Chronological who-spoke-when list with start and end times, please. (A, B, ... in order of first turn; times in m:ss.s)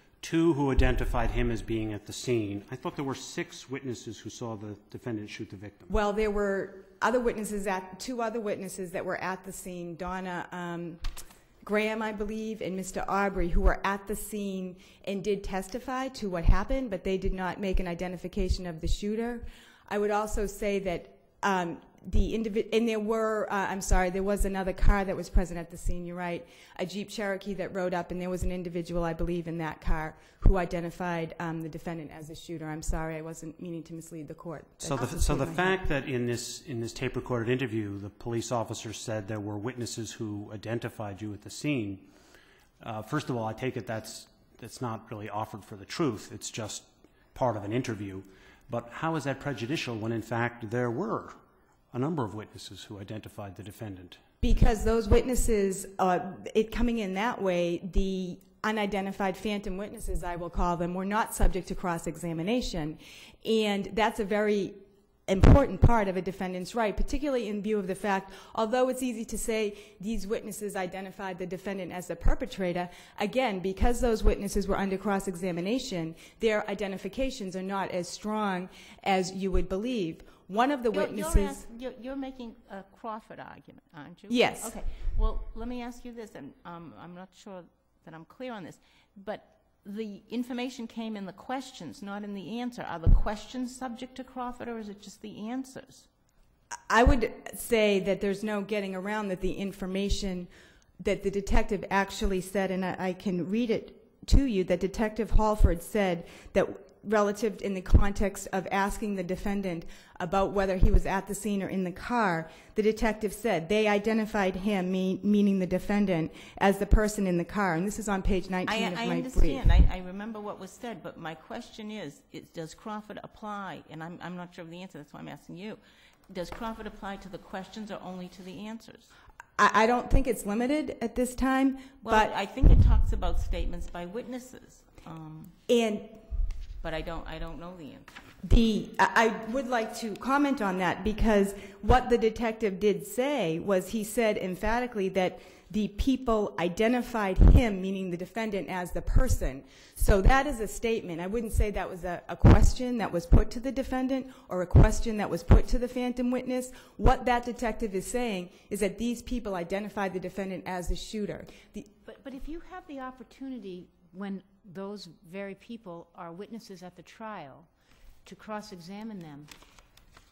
0:00.2-0:05.9 A
0:05.9-0:35.8 B
0:34.8-0:42.1 A
0:42.8-0:51.4 A
0:51.9-0:54.2 A
0:54.4-1:21.6 B
1:20.9-1:36.1 C
1:24.3-1:24.8 B
1:36.9-1:59.7 B
1:58.7-2:09.1 C
2:09.6-2:12.3 B
2:12.0-2:15.6 C
2:15.7-2:16.2 B
2:16.8-2:18.2 C
2:18.4-2:41.9 B
2:42.0-2:47.7 D
2:48.2-2:49.5 D